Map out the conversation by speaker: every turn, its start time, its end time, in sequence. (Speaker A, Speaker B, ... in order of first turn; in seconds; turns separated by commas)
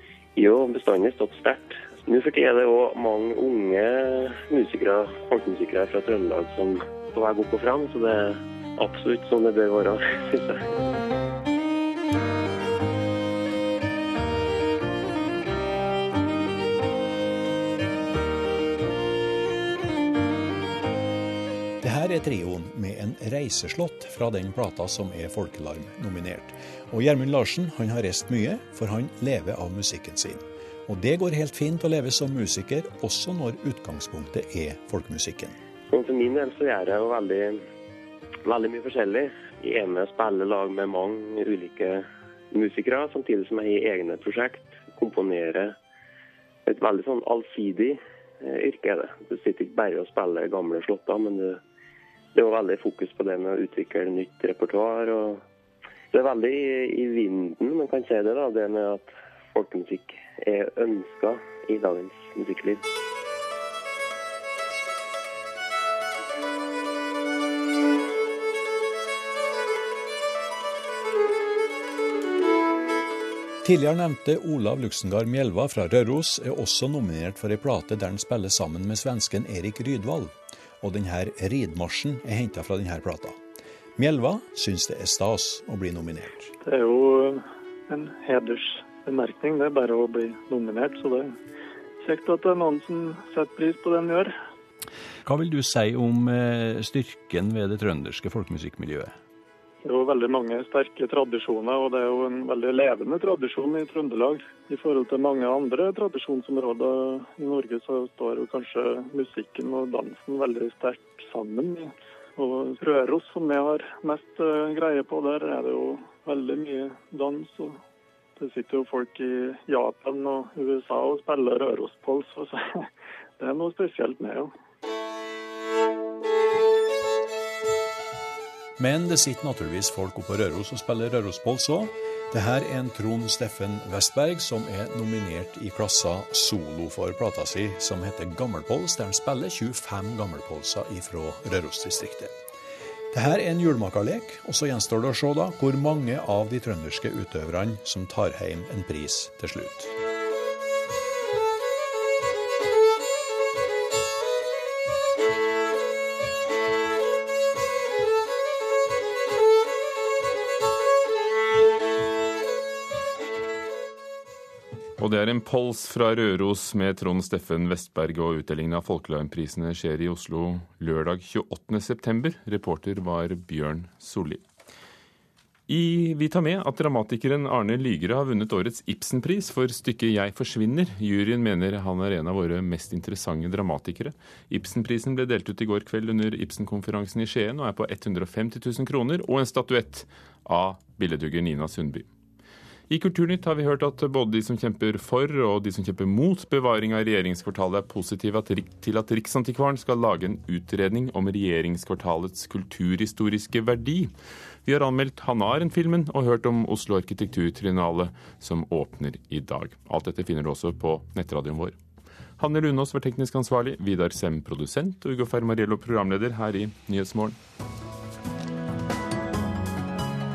Speaker A: 0.3-10.6, Speaker B: 21.8-35.5, Speaker A: 35.9-37.6, Speaker A: 38.4-45.8, Speaker A: 46.6-51.6, Speaker A: 52.3-55.4, Speaker A: 56.1-62.8, Speaker B: 73.6-83.4, Speaker B: 84.0-86.5, Speaker C: 86.6-91.3, Speaker C: 92.0-94.3, Speaker B: 95.2-99.1, Speaker C: 99.8-117.8, Speaker C: 118.4-122.9, Speaker C: 123.4-124.5, Speaker B: 128.8-142.3, Speaker B: 143.1-149.9, Speaker D: 165.0-174.4, Speaker D: 175.7-192.1, Speaker D: 192.9-204.1, Speaker D: 204.6-211.8, Speaker D: 212.4-217.4